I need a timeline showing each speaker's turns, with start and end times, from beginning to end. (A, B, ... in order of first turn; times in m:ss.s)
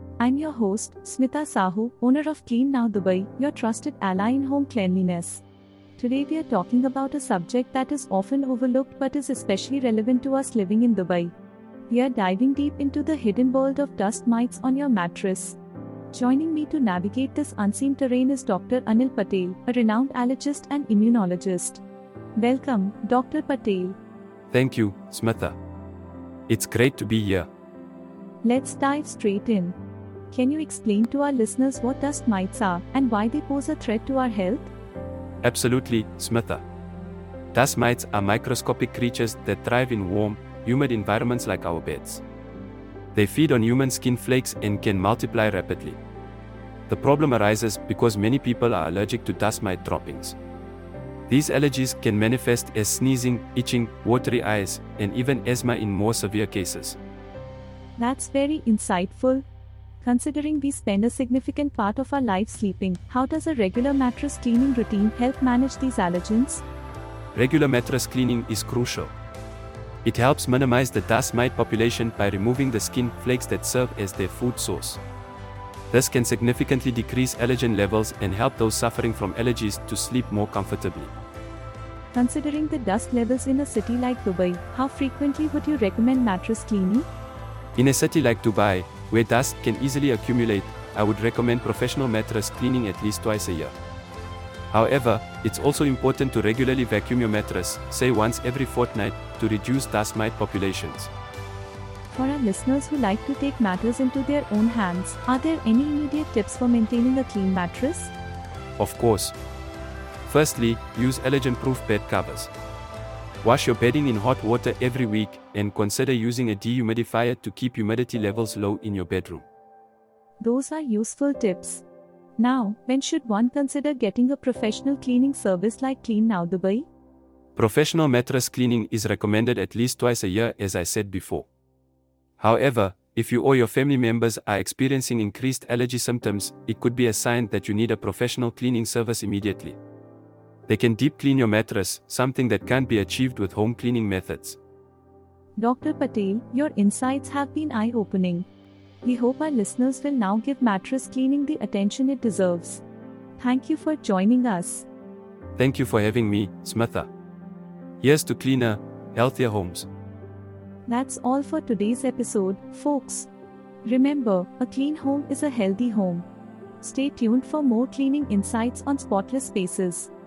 0:00.2-0:05.4 A
0:06.0-0:11.3 A
0:11.9-0:15.6 A
0:16.1-0:21.8 A
0:22.4-0:24.0 A
0:24.5-0:25.6 B
0:26.5-0:27.5 B
0:28.4-0:29.8 A
0:30.3-0:34.7 A
0:35.4-0:36.6 B
0:37.5-0:42.2 B
0:43.1-0:46.0 B
0:46.9-0:50.4 B
0:51.3-0:57.0 B
0:58.0-0:59.4 A
1:00.0-1:06.6 A
1:07.4-1:09.1 B
1:10.0-1:15.0 B
1:15.9-1:21.1 B
1:22.1-1:27.1 A
1:27.8-1:33.8 B
1:34.7-1:41.1 B
1:42.1-1:48.1 A
1:48.8-1:49.4 B
1:50.3-1:52.5 B
1:53.4-1:59.4 B
2:00.4-2:01.8 A
2:02.4-2:06.9 A
2:07.6-2:11.5 B
2:12.4-2:19.8 B
2:20.7-2:24.6 B
2:25.6-2:28.5 A
2:29.0-2:32.8 A
2:33.4-2:34.9 A
2:35.6-2:37.1 B
2:38.0-2:39.9 B
2:40.9-2:43.3 A
2:43.8-2:46.3 A
2:46.8-2:50.1 A